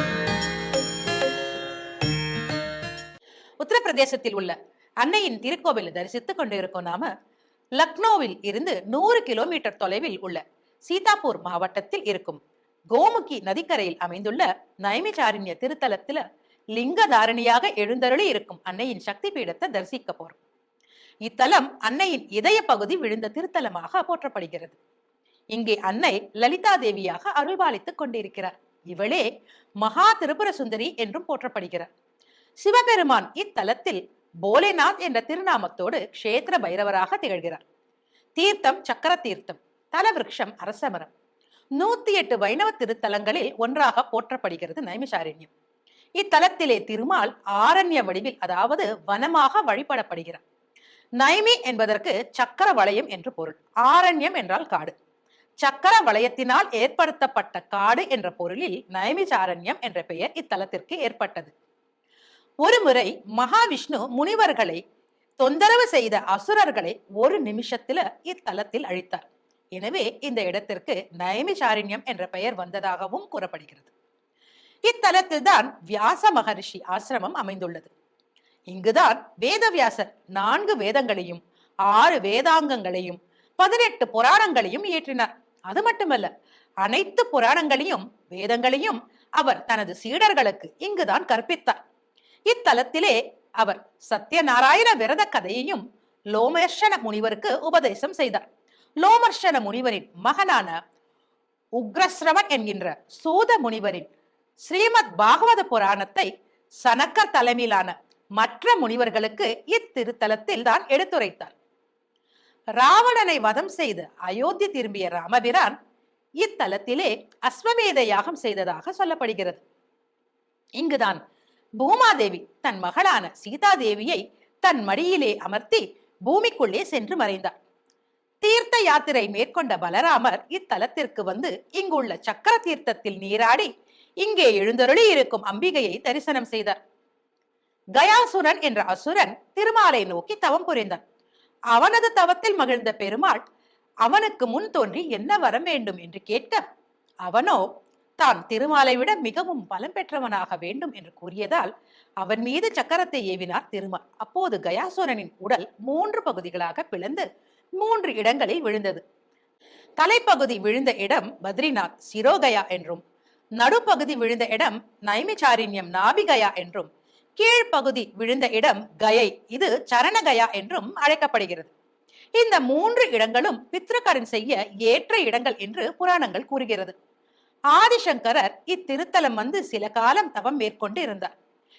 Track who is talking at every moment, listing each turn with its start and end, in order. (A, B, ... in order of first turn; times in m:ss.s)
0:03.6-0:07.1 A
0:07.8-0:12.4 A
0:12.9-0:16.2 A
0:16.7-0:20.4 A
0:21.2-0:24.8 A
0:25.5-0:29.2 A
0:29.8-0:31.9 A
0:32.6-0:37.6 A
0:38.4-0:41.1 A
0:41.8-0:45.5 A
0:46.2-0:50.4 A
0:51.2-0:54.9 A
0:55.6-1:01.5 A
1:02.6-1:04.8 A
1:05.4-1:13.9 A
1:14.9-1:17.9 A
1:18.7-1:26.3 A
1:26.8-1:31.8 A
1:32.5-1:38.4 A
1:39.0-1:40.8 A
1:41.8-1:44.1 A
1:44.6-1:46.3 A
1:46.8-1:51.5 A
1:52.8-1:55.8 A
1:56.4-1:59.6 A
2:00.8-2:01.2 A
2:01.8-2:07.5 A
2:08.4-2:13.7 A
2:14.2-2:16.8 A
2:17.9-2:21.0 A
2:21.7-2:23.4 A
2:24.0-2:26.6 A
2:27.2-2:27.6 A
2:28.2-2:37.2 A
2:37.8-2:39.0 A
2:40.0-2:43.0 A
2:43.6-2:51.7 A
2:52.4-2:56.9 A
2:57.7-3:01.3 A